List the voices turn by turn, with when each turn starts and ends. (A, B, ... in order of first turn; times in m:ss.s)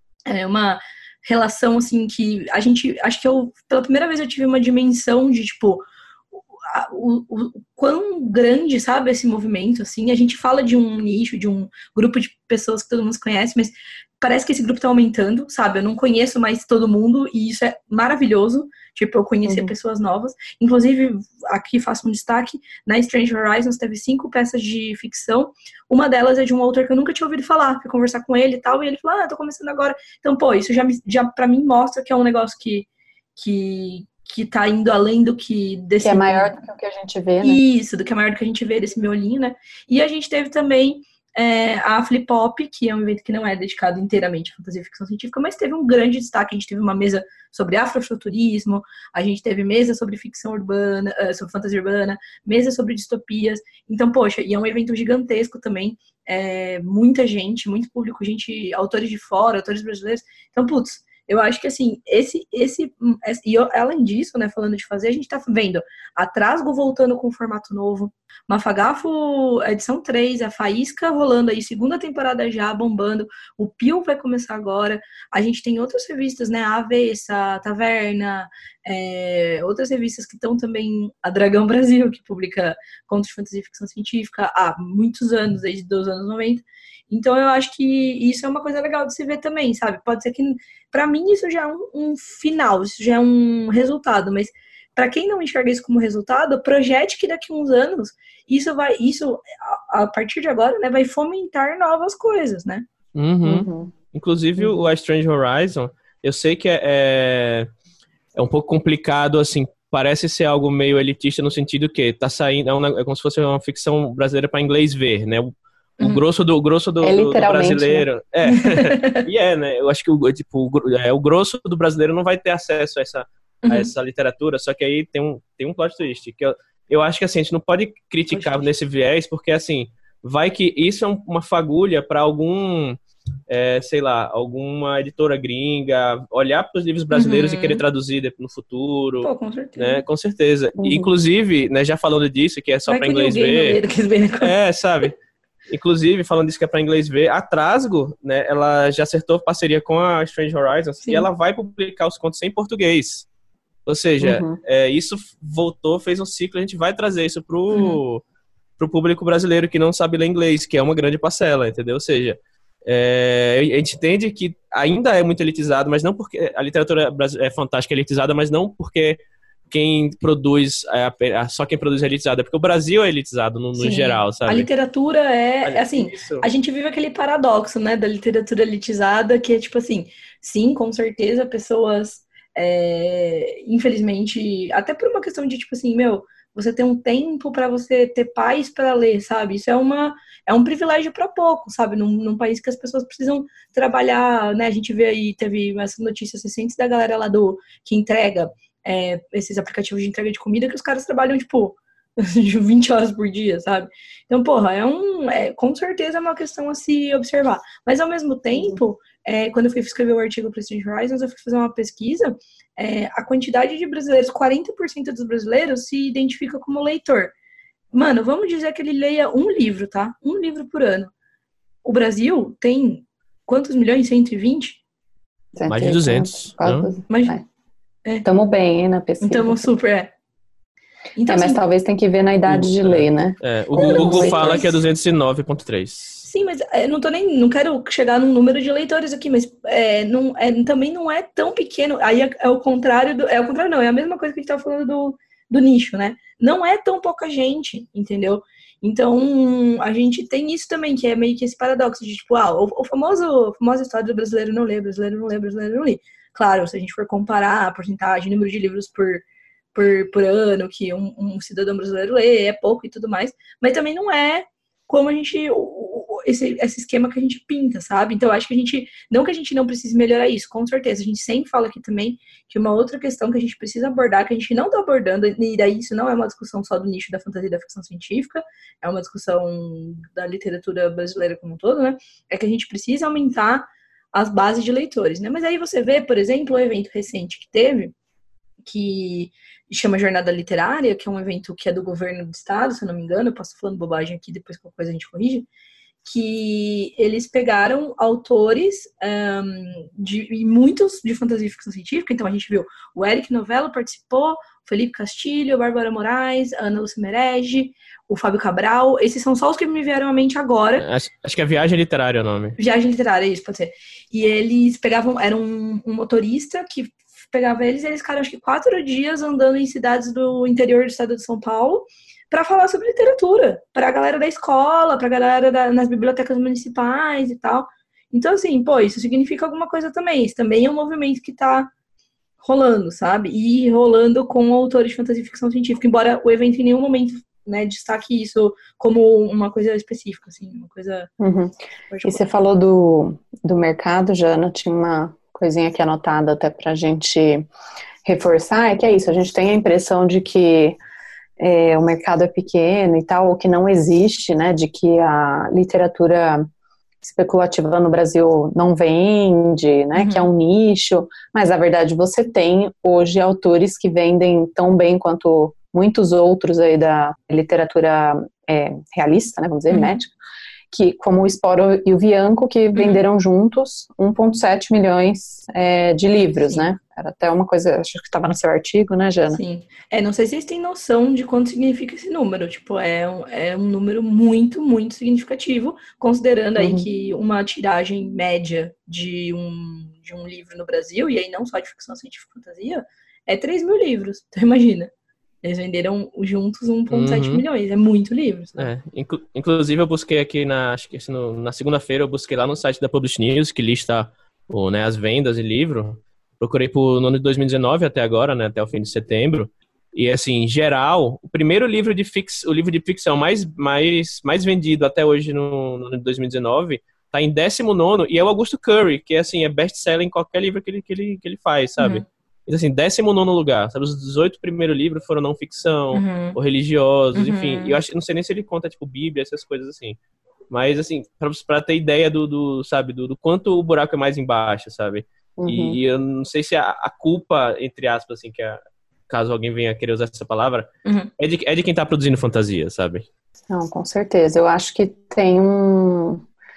0:00.3-0:05.8 A
0:06.7-0:36.5 A
0:19.5-0:19.7 B
0:36.0-0:37.6 B
0:37.4-1:42.9 A
1:43.1-1:47.7 C
1:43.4-1:43.9 B
1:44.6-1:44.8 B
1:48.4-2:23.8 C
1:57.0-1:58.1 B
1:58.4-1:59.3 A
2:03.6-2:03.9 A
2:08.3-2:08.7 A
2:17.1-2:17.8 A
2:19.2-2:20.0 A
2:20.8-2:21.1 B
2:22.9-2:24.5 A
2:24.4-2:25.2 C
2:25.7-2:33.3 C
2:33.9-2:38.2 C
2:34.2-2:34.6 B
2:37.7-2:38.0 A
2:38.8-2:54.7 C
2:53.8-3:37.3 A
2:55.6-2:56.5 C
3:28.6-3:28.8 B
3:37.9-3:41.1 A
3:41.8-3:44.8 A
3:45.6-3:47.4 B
3:45.7-3:46.9 C
3:47.1-3:47.4 A
3:48.2-3:49.6 B
3:49.2-3:50.1 A
3:51.2-3:51.6 A
3:51.3-3:54.6 B
3:52.5-3:56.3 C
3:53.8-3:54.8 A
3:56.2-4:48.0 A
4:48.6-4:55.5 A
4:56.0-5:10.8 A
5:10.8-5:12.6 C
5:12.6-5:31.7 A
5:32.4-5:41.1 A
5:41.2-5:47.5 B
5:41.9-5:42.3 A
5:48.0-5:50.8 B
5:51.4-5:56.5 B
5:57.0-6:10.1 B
6:00.0-6:00.3 A
6:09.7-6:10.0 A
6:10.7-6:19.4 B
6:12.8-6:13.0 A
6:19.3-6:34.9 A
6:26.6-6:26.9 B
6:35.4-6:38.7 A
6:36.9-6:37.4 C
6:38.6-7:10.0 C
7:01.8-7:02.0 A
7:05.9-7:06.4 A
7:07.1-7:07.8 A
7:10.5-7:18.6 C
7:15.4-7:15.8 B
7:19.1-7:23.1 C
7:20.8-7:21.1 A
7:23.5-7:26.2 B